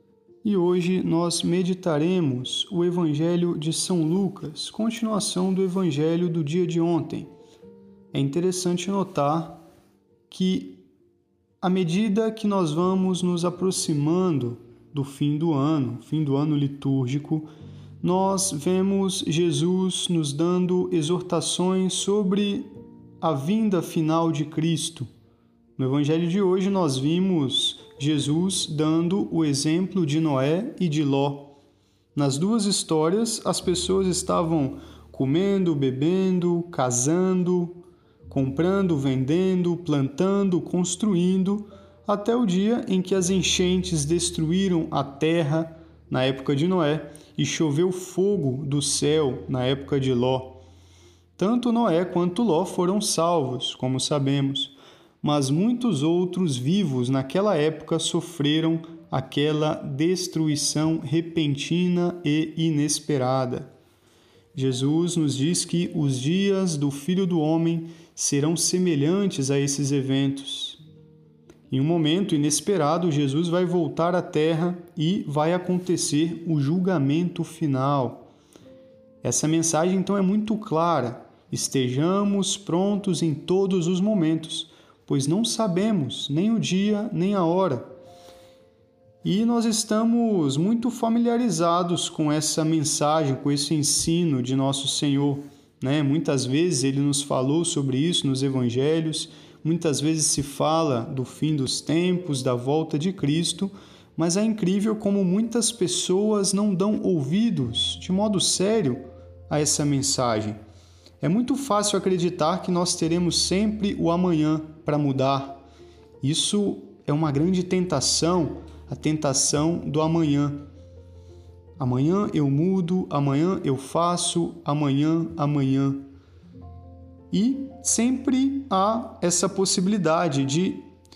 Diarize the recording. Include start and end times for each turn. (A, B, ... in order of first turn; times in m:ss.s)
0:00.4-0:07.3 A
0:08.1-0:09.6 A
0:10.3-0:10.8 A
0:11.6-0:17.5 A
0:18.0-0:22.7 A
0:23.2-0:25.1 A
0:25.8-0:31.5 A
0:32.2-0:50.6 A
0:51.4-1:03.7 A
1:04.6-1:10.8 A
1:11.7-1:18.3 A
1:19.2-1:27.9 A
1:29.2-1:50.6 A
1:51.2-1:55.6 A
1:56.2-2:00.6 A
2:01.8-2:06.1 A
2:07.3-2:10.8 A